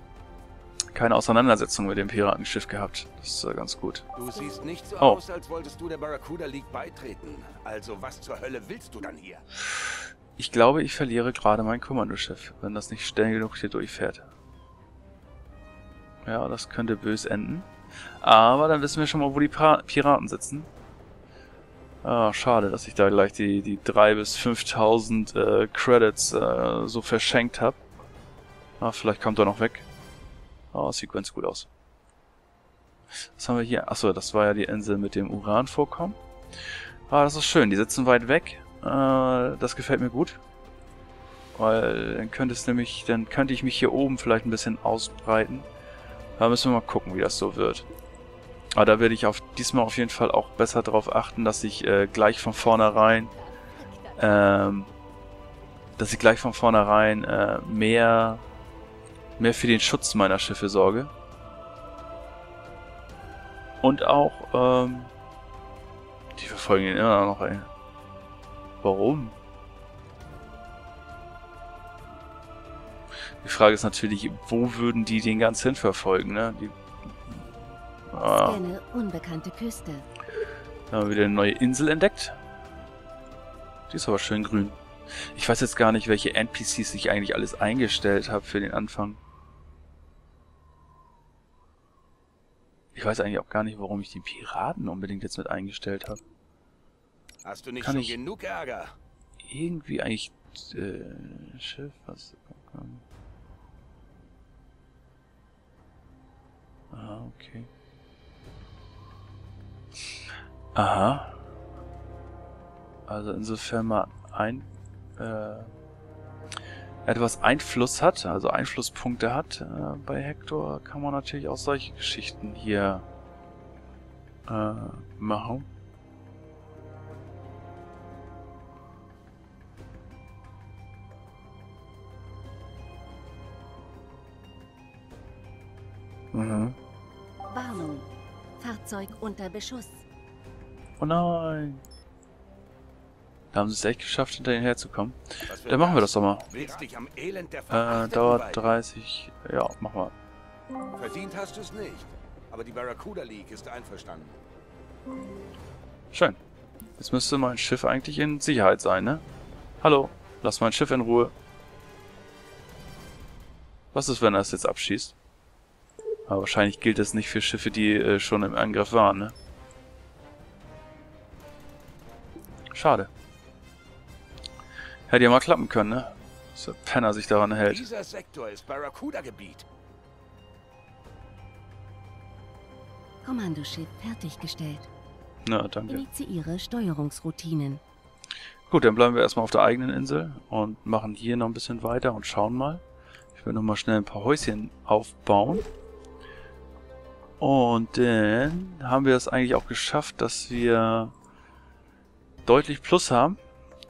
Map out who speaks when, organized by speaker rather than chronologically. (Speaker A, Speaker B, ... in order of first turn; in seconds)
Speaker A: 0.9-4.1, 10.4-14.3, 16.2-17.7, 18.2-20.7, 22.0-27.8, 28.8-29.9, 30.7-31.7, 33.4-36.2, 37.1-40.4, 41.5-45.7, 46.4-47.9, 48.8-53.3, 54.2-54.9, 56.0-58.5, 59.4-61.1, 63.8-65.1, 66.3-67.7, 68.8-69.4, 73.4-77.5, 78.1-78.6, 80.9-82.4, 83.9-84.8, 85.3-89.2, 92.9-96.2, 97.8-98.2, 99.4-103.0, 106.9-107.7, 110.8-111.4, 113.1-115.7, 117.0-123.1, 124.5-125.7, 136.3-136.8, 141.0-141.8, 143.5-146.5, 147.7-150.2, 156.1-156.4, 157.0-159.2, 159.8-161.3, 163.9-165.2, 166.3-169.3, 172.7-173.1, 175.1-177.9, 185.4-186.1, 188.7-192.8, 193.3-195.7, 197.4-201.1, 202.4-203.4
Speaker B: 4.2-9.4, 97.4-98.9, 145.5-148.7, 150.9-154.4, 177.6-179.7
Speaker C: 78.2-80.1, 137.5-140.0, 183.2-184.9, 185.9-187.8